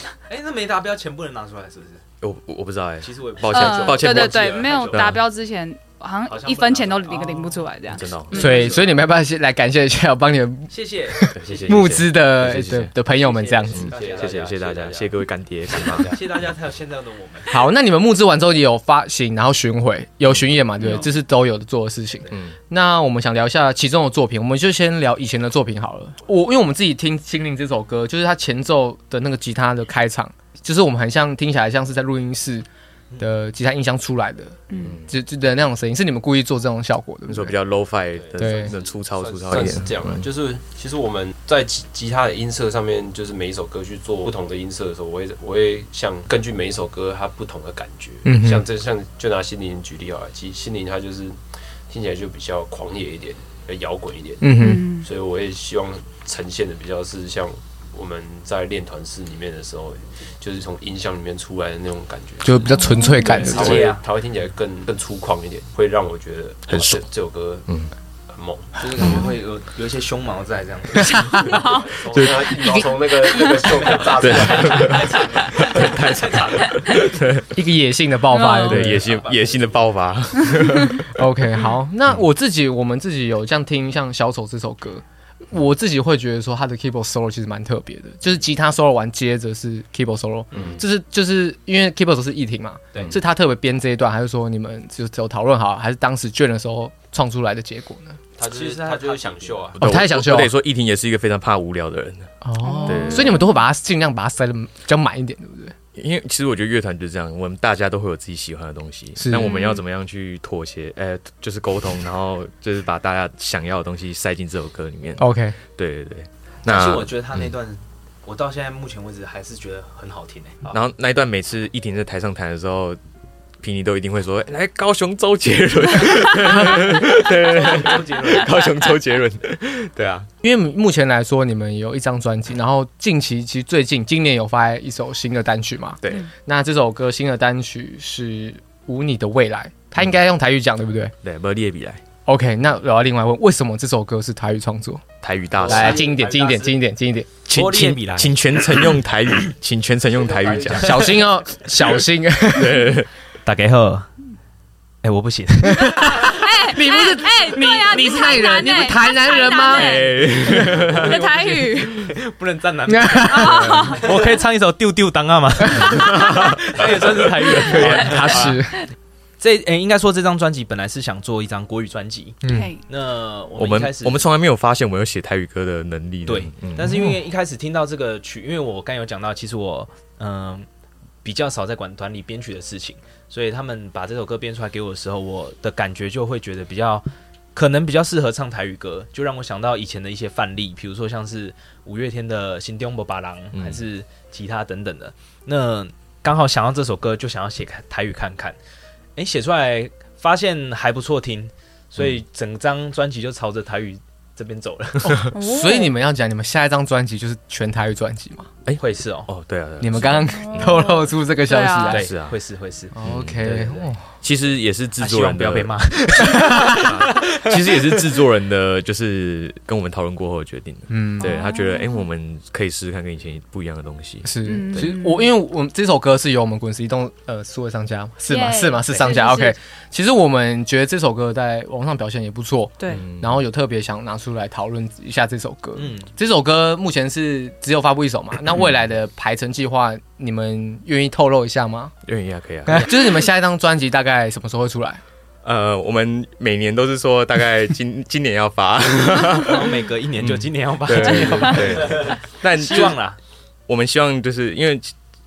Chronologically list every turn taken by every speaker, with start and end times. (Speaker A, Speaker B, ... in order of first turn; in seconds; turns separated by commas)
Speaker A: 0.3-2.0, Speaker B: 2.2-5.2, Speaker A: 3.0-5.1, Speaker C: 3.5-8.6, Speaker A: 6.3-7.7, Speaker B: 7.9-8.7, Speaker A: 8.3-8.8, Speaker D: 8.3-13.9, Speaker A: 10.7-11.8, Speaker B: 11.3-12.9, Speaker A: 13.1-14.6, Speaker B: 13.7-16.2, Speaker E: 13.9-15.1, Speaker A: 16.0-17.6, Speaker D: 17.5-32.7, Speaker D: 33.2-37.5, Speaker C: 34.7-35.0, Speaker B: 37.3-40.2, Speaker E: 38.2-62.7, Speaker D: 38.4-38.7, Speaker D: 48.2-48.6, Speaker D: 54.4-54.8, Speaker C: 54.6-55.0, Speaker D: 62.4-63.9, Speaker C: 62.8-63.3, Speaker E: 63.2-67.7, Speaker A: 63.2-64.0, Speaker B: 66.7-67.0, Speaker E: 68.3-69.3, Speaker A: 68.8-71.5, Speaker E: 71.3-75.2, Speaker C: 71.4-72.0, Speaker B: 72.1-72.7, Speaker A: 73.8-77.0, Speaker B: 74.2-77.5, Speaker D: 77.5-79.0, Speaker C: 78.3-78.9, Speaker B: 78.6-81.1, Speaker A: 78.8-79.8, Speaker D: 81.1-98.2, Speaker E: 98.4-99.8, Speaker A: 98.4-99.7, Speaker D: 99.8-100.5, Speaker B: 99.8-102.3, Speaker D: 102.4-105.7, Speaker C: 102.6-103.4, Speaker B: 102.8-103.4, Speaker B: 105.9-115.2, Speaker D: 109.2-109.5, Speaker C: 109.4-109.8, Speaker D: 115.2-115.6, Speaker B: 115.8-117.5, Speaker A: 116.6-120.8, Speaker B: 120.7-123.0, Speaker B: 123.6-130.3, Speaker A: 127.2-128.6, Speaker D: 130.4-141.1, Speaker B: 141.2-142.0, Speaker D: 142.2-145.0, Speaker B: 145.2-146.0, Speaker A: 145.6-146.8, Speaker D: 145.6-147.3, Speaker B: 147.5-151.2, Speaker A: 147.5-148.9, Speaker E: 150.2-151.2, Speaker D: 150.8-153.0, Speaker B: 152.5-153.1, Speaker A: 153.4-154.1, Speaker A: 155.0-156.3, Speaker D: 155.7-160.0, Speaker C: 156.0-162.1, Speaker B: 159.6-161.2, Speaker A: 160.5-168.6, Speaker D: 162.9-164.0, Speaker C: 163.3-164.1, Speaker B: 166.1-166.5, Speaker D: 167.6-168.8, Speaker A: 169.4-174.2, Speaker D: 172.4-172.7, Speaker C: 172.4-172.8, Speaker B: 173.6-176.9, Speaker A: 176.2-180.7, Speaker D: 176.8-177.2, Speaker A: 181.2-198.6, Speaker B: 193.5-193.8, Speaker A: 199.2-205.2, Speaker D: 205.0-208.5, Speaker C: 205.3-205.9, Speaker B: 208.6-210.8, Speaker A: 208.8-209.3, Speaker D: 209.8-212.1, Speaker C: 210.3-212.0, Speaker A: 211.9-213.9, Speaker B: 211.9-212.3, Speaker D: 212.9-214.0, Speaker B: 213.0-213.5, Speaker B: 214.2-215.7, Speaker A: 215.0-217.8, Speaker D: 216.2-216.8, Speaker B: 216.7-224.9, Speaker D: 220.9-221.3, Speaker C: 221.2-222.0, Speaker D: 224.2-241.9, Speaker C: 224.4-225.3, Speaker C: 228.3-229.6, Speaker B: 232.9-233.3, Speaker A: 235.8-236.1, Speaker B: 242.0-243.0, Speaker D: 242.7-245.0, Speaker B: 245.4-253.0, Speaker A: 249.4-253.2, Speaker C: 251.2-251.5, Speaker B: 253.7-254.9